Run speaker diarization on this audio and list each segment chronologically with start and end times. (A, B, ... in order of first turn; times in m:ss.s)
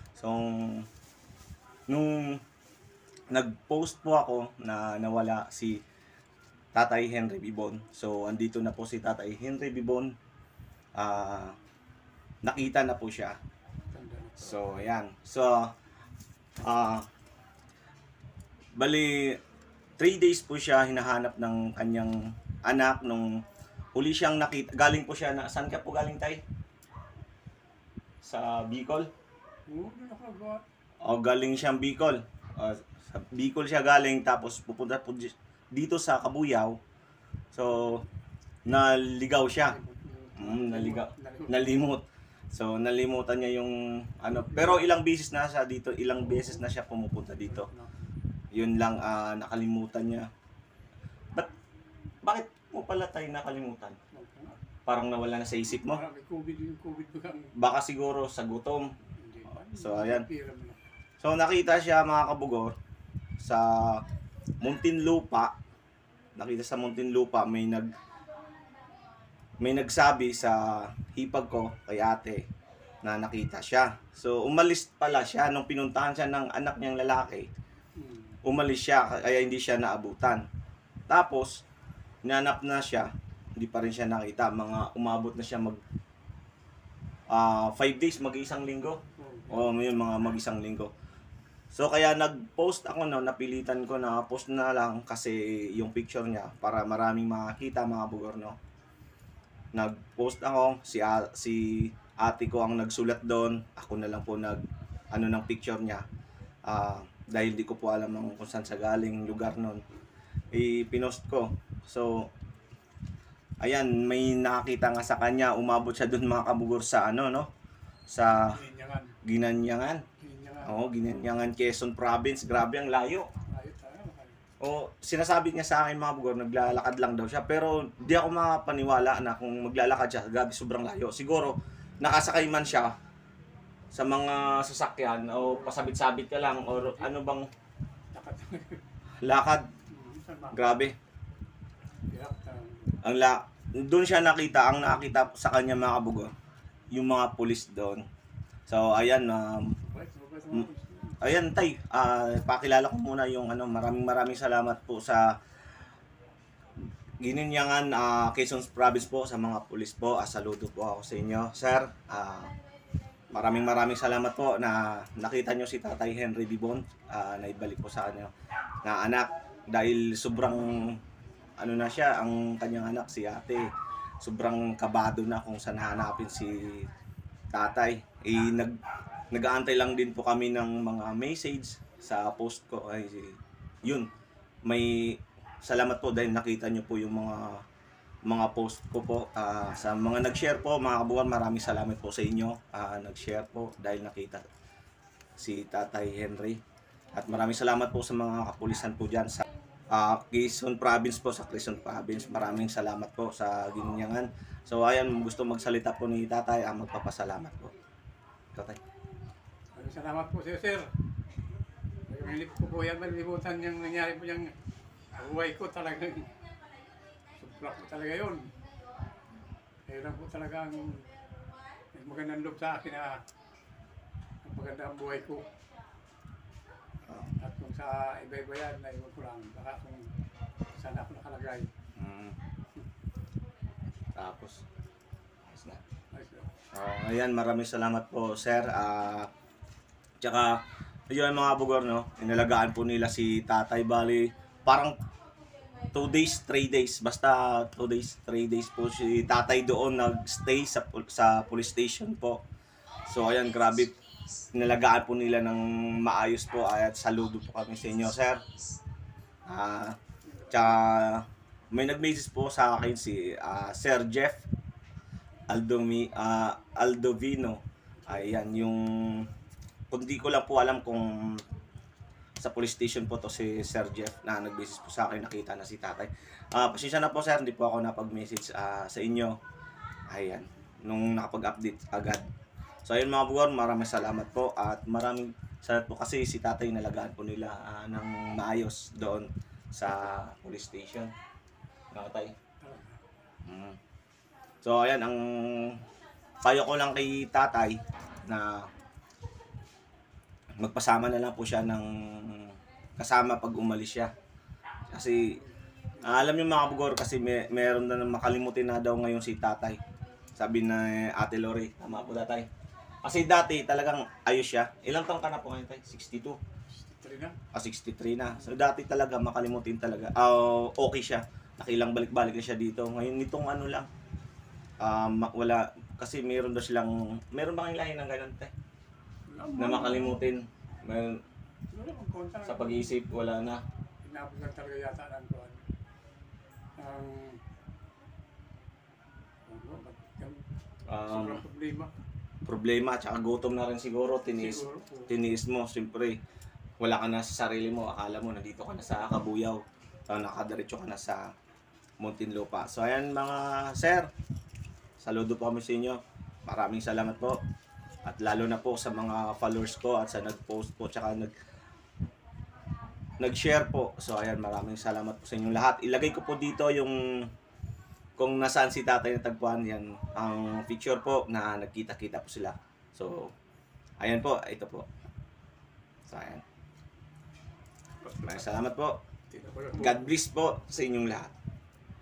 0:00.2-0:00.9 A
0:01.9-0:02.4 A
0:03.3-0:05.8 A
0:06.7-0:10.1 A
0:10.9-0:11.6 A
0:12.4-0:13.4 A
0:13.9-0:14.9 B
0:14.4-0:15.7 A
0:16.6-0:17.1 A
0:18.8-0:19.4 A
0:20.0-0:23.4 A
0:23.9-0:26.4 A
0:28.2-0:29.1 A
0:29.7-0:30.6 B
0:31.0-0:36.8 A
0:37.5-0:38.0 A
0:38.6-0:39.8 A
0:39.6-0:41.8 B
0:40.4-0:47.7 A
0:44.3-0:44.9 B
0:46.2-0:46.6 B
0:47.4-0:48.1 B
0:48.5-0:50.3 A
0:52.2-0:54.0 A
0:54.1-0:54.6 B
0:54.8-0:56.0 A
0:55.7-0:57.5 B
0:57.5-0:58.9 A
0:59.2-1:00.8 B
0:59.7-1:00.2 A
1:01.2-1:02.7 A
1:03.4-1:04.0 A
1:04.6-1:05.5 A
1:06.4-1:07.9 A
1:09.6-1:12.4 A
1:13.0-1:17.5 A
1:18.0-1:18.4 B
1:18.4-1:20.4 A
1:21.1-1:21.6 A
1:22.2-1:25.8 A
1:27.3-1:30.9 A
1:29.2-1:29.8 B
1:31.7-1:38.6 A
1:39.7-1:46.0 A
1:46.7-1:49.8 A
1:50.5-1:52.3 A
1:53.6-1:57.5 A
1:58.1-1:58.6 A
1:58.4-1:59.2 B
1:59.2-2:00.1 A
2:00.2-2:00.7 B
2:00.6-2:03.3 A
2:03.5-2:04.4 B
2:04.6-2:12.9 A
2:13.9-2:17.5 A
2:18.1-2:18.8 B
2:19.2-2:19.7 A
2:19.9-2:20.6 B
2:20.5-2:20.9 A
2:22.1-2:23.0 B
2:23.0-2:26.3 A
2:26.9-2:28.0 A
2:28.7-2:29.8 A
2:29.8-2:31.2 B
2:31.2-2:35.4 A
2:37.2-2:42.5 A
2:43.3-2:48.3 A
2:48.8-2:51.0 A
2:51.6-2:53.7 A
2:54.2-2:56.9 A
2:57.5-2:58.8 A
2:59.3-3:04.1 A
3:04.6-3:07.6 A
3:08.2-3:14.4 A
3:15.4-3:16.6 A
3:17.1-3:27.7 A
3:22.1-3:22.6 B
3:28.5-3:28.8 A
3:29.7-3:30.9 B
3:32.1-3:34.5 B
3:35.1-3:36.3 B
3:37.4-3:38.5 B
3:39.9-3:41.1 B
3:41.9-3:43.2 B
3:44.4-3:45.5 B
3:47.1-3:47.4 A
3:47.4-3:50.1 B
3:50.7-3:51.7 B
3:52.0-3:52.4 A
3:54.1-3:54.6 A
3:55.4-3:55.8 A
3:56.1-3:56.5 B
3:56.7-3:59.3 A
4:00.2-4:05.0 A
4:05.9-4:12.4 A
4:13.0-4:18.5 A
4:19.5-4:20.0 A
4:20.3-4:20.9 B
4:20.5-4:24.4 A
4:25.5-4:29.3 A
4:28.0-4:28.5 B
4:29.9-4:31.4 A
4:32.4-4:39.4 A
4:40.1-4:42.2 A
4:42.8-4:51.1 A
4:51.9-4:52.3 A
4:52.6-4:53.0 B
4:53.4-4:53.8 A
4:54.6-4:55.8 A
4:56.4-4:58.7 A
5:00.6-5:04.1 A
5:04.9-5:05.4 A
5:05.4-5:06.3 B
5:06.0-5:09.8 A
5:10.3-5:12.5 A
5:13.0-5:16.4 A
5:16.7-5:17.4 B
5:17.5-5:23.9 A
5:24.8-5:28.5 A
5:29.3-5:30.2 B
5:29.6-5:31.2 A
5:31.7-5:33.0 B
5:32.4-5:33.6 A
5:34.0-5:35.6 B
5:36.8-5:37.4 B
5:39.5-5:40.4 B
5:40.9-5:41.4 A
5:41.0-5:41.9 B
5:42.4-5:46.2 A
5:44.3-5:45.1 B
5:46.8-5:51.3 A
5:52.0-5:54.1 A
5:55.0-5:57.4 A
5:58.0-6:01.3 A
6:03.2-6:07.3 A
6:08.2-6:13.3 A
6:14.0-6:14.9 A
6:16.1-6:16.4 A
6:18.0-6:18.5 B
6:18.2-6:19.0 A
6:19.3-6:20.1 B
6:19.7-6:21.3 A